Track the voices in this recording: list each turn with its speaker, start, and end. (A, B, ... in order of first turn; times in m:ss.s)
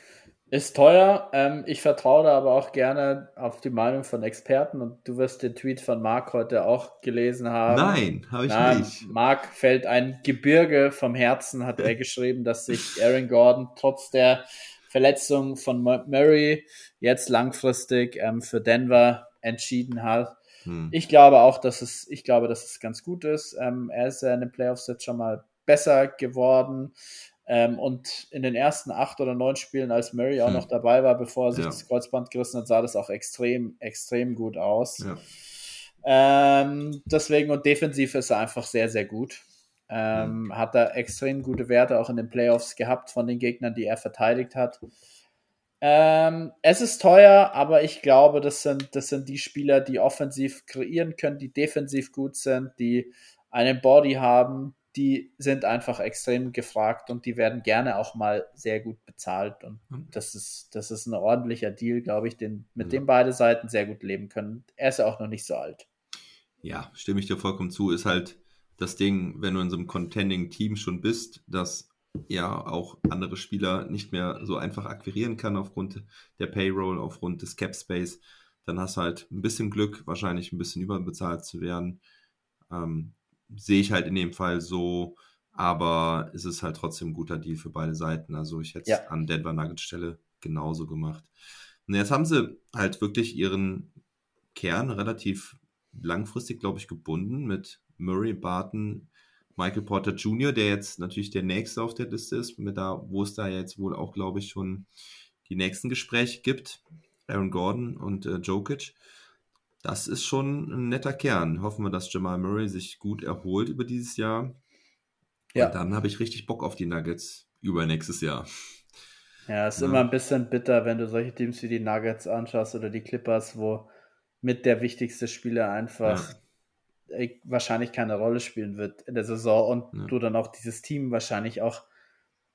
0:00.5-0:20.4 A
0:07.7-0:09.1 B
0:20.6-0:21.0 B
0:20.9-0:26.9 A
0:27.4-0:35.0 A
0:31.5-0:31.8 B
0:36.0-0:44.8 A
0:45.8-1:05.8 A
1:06.6-1:22.0 B
1:22.7-1:31.3 B
1:31.8-1:33.9 B
1:34.5-1:44.9 B
1:45.4-1:49.0 B
1:49.8-1:54.5 B
1:55.5-1:58.5 B
1:59.5-2:03.9 A
1:59.8-2:00.0 B
2:04.4-2:06.3 A
2:06.0-2:06.3 B
2:07.1-2:11.8 A